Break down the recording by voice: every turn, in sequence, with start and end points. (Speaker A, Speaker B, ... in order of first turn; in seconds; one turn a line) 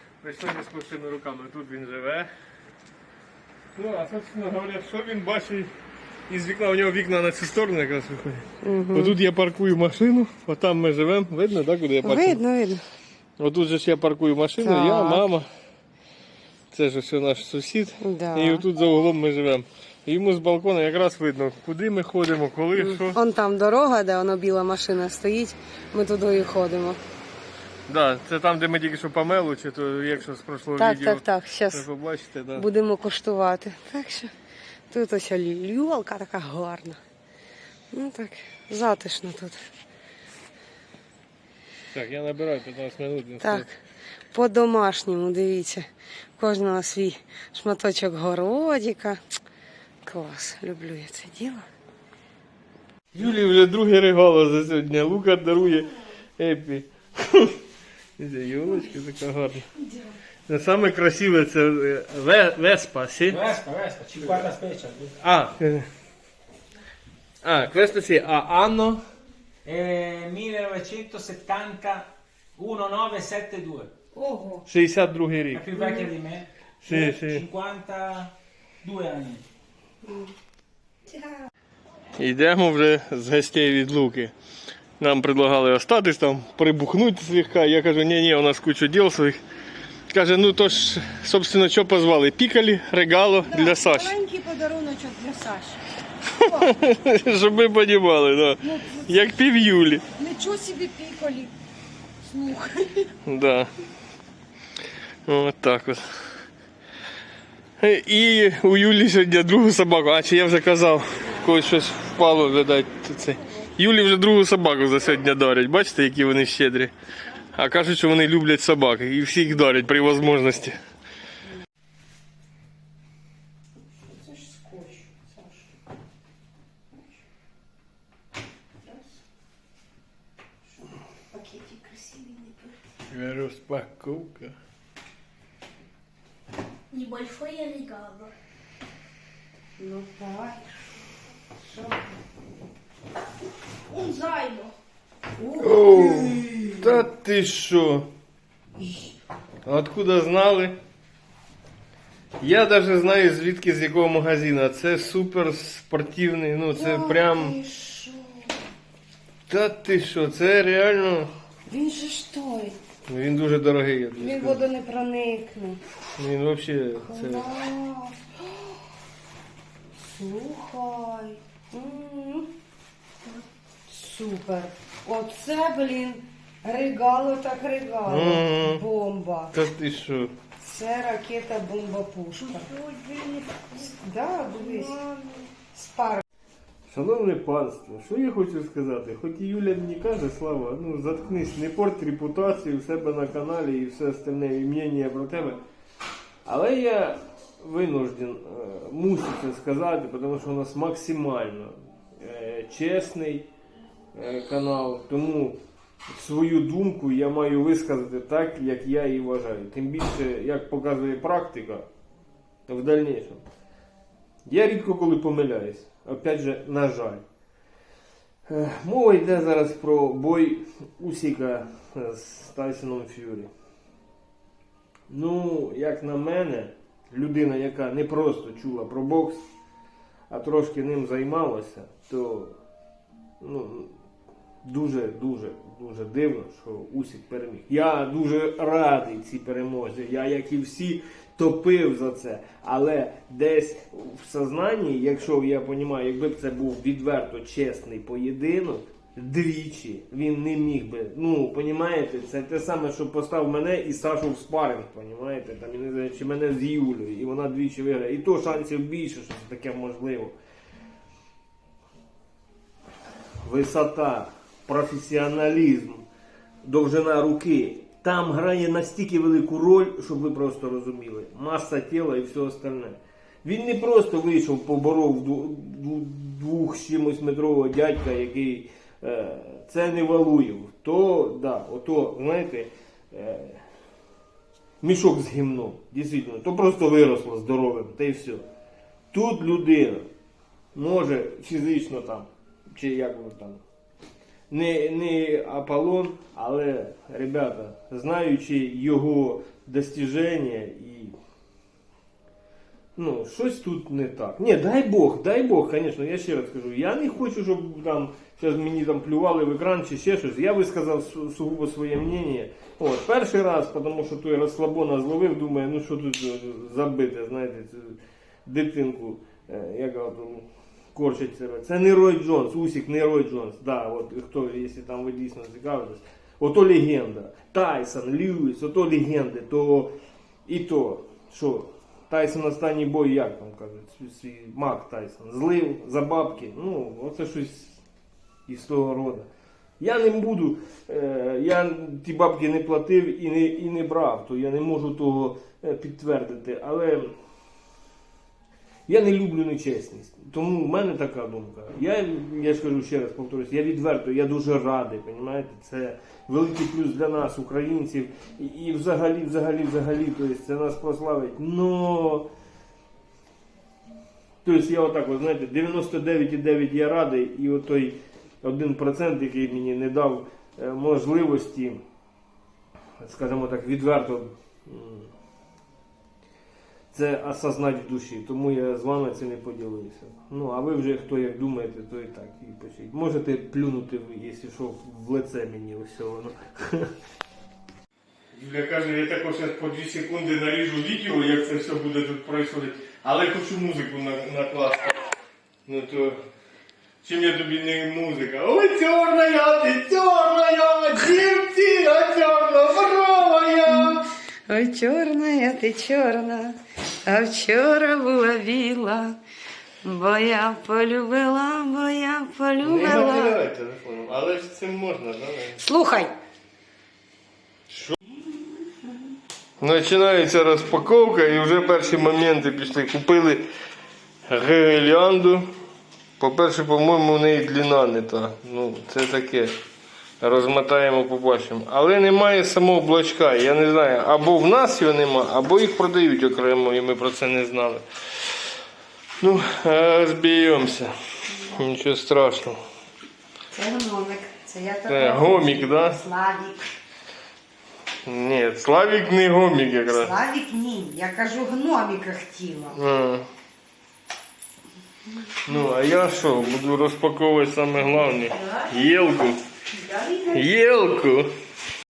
Speaker A: 0.2-2.3
Speaker A: 3.8-5.7
Speaker A: 6.3-12.4
Speaker B: 8.6-9.2
Speaker B: 12.0-12.8
Speaker A: 13.4-15.5
Speaker B: 14.6-15.2
Speaker A: 16.7-23.2
Speaker B: 18.0-18.6
Speaker B: 22.8-27.0
Speaker A: 27.9-32.7
Speaker B: 30.8-31.8
Speaker B: 32.5-34.3
Speaker B: 34.9-37.0
Speaker B: 37.9-39.6
Speaker A: 41.9-43.7
Speaker B: 43.4-43.7
Speaker B: 44.3-45.8
Speaker B: 46.4-49.2
Speaker B: 50.0-51.6
Speaker A: 53.1-57.6
Speaker A: 58.2-59.7
Speaker A: 60.5-63.5
Speaker C: 63.3-65.1
Speaker A: 65.2-65.9
Speaker A: 67.4-69.0
Speaker C: 69.6-73.9
Speaker B: 74.1-74.6
Speaker A: 74.7-75.7
Speaker C: 75.5-79.4
Speaker B: 75.7-76.1
Speaker A: 76.8-77.5
Speaker B: 80.0-80.3
Speaker B: 81.1-81.3
Speaker A: 82.2-84.3
Speaker A: 85.0-89.4
Speaker A: 90.1-94.2
Speaker B: 93.5-95.8
Speaker A: 96.3-100.0
Speaker B: 96.4-96.7
Speaker B: 98.6-99.3
Speaker B: 100.2-101.5
Speaker B: 102.2-103.1
Speaker A: 103.2-103.7
Speaker A: 105.2-106.0
Speaker A: 107.8-116.9
Speaker A: 117.5-120.8
Speaker B: 124.1-125.7
Speaker B: 131.3-132.7
Speaker A: 133.1-134.5
Speaker D: 136.9-138.3
Speaker B: 139.8-140.8
Speaker B: 141.7-142.0
Speaker D: 143.9-144.7
Speaker B: 145.4-147.0
Speaker A: 145.6-148.1
Speaker A: 149.6-150.8
Speaker A: 152.4-157.6
Speaker B: 156.7-158.5
Speaker A: 159.5-161.3
Speaker B: 161.7-162.8
Speaker A: 163.1-164.6
Speaker B: 164.2-165.8
Speaker A: 166.2-167.5
Speaker B: 167.0-168.7
Speaker B: 170.0-172.5
Speaker B: 173.9-179.5
Speaker A: 178.1-178.8
Speaker A: 179.5-180.3
Speaker B: 180.6-182.7
Speaker D: 182.6-183.7
Speaker B: 183.8-186.2
Speaker A: 186.9-195.6
Speaker A: 196.4-203.5
Speaker A: 204.1-205.6
Speaker A: 206.1-211.8
Speaker A: 212.7-213.4
Speaker A: 214.4-217.2
Speaker A: 218.5-223.5
Speaker A: 225.1-229.4
Speaker A: 230.3-232.6
Speaker A: 233.4-233.9
Speaker A: 234.6-260.3
Speaker A: 263.4-266.1
Speaker A: 266.6-283.6
Speaker A: 284.8-288.4
Speaker A: 289.1-290.1
Speaker A: 290.7-293.6
Speaker A: 294.5-301.1
Speaker A: 302.9-329.9
Speaker A: 330.5-337.8
Speaker A: 338.5-339.3
Speaker A: 339.8-347.1
Speaker A: 348.9-362.3
Speaker A: 364.4-371.8
Speaker A: 373.0-375.1
Speaker A: 376.9-386.9
Speaker A: 388.3-395.0
Speaker A: 395.6-396.2
Speaker A: 397.0-404.1
Speaker B: 404.5-406.5
Speaker B: 407.1-409.1
Speaker B: 409.8-413.4
Speaker A: 412.6-415.6
Speaker B: 415.6-416.1
Speaker A: 419.6-423.4
Speaker A: 424.3-425.5
Speaker A: 426.2-429.5
Speaker A: 430.2-437.8
Speaker A: 439.2-442.6
Speaker B: 443.5-446.6
Speaker A: 444.9-446.0
Speaker A: 448.0-450.1
Speaker B: 449.9-452.8
Speaker A: 452.7-453.3
Speaker A: 455.4-459.4
Speaker B: 458.2-458.8
Speaker B: 459.7-460.4
Speaker A: 460.3-461.3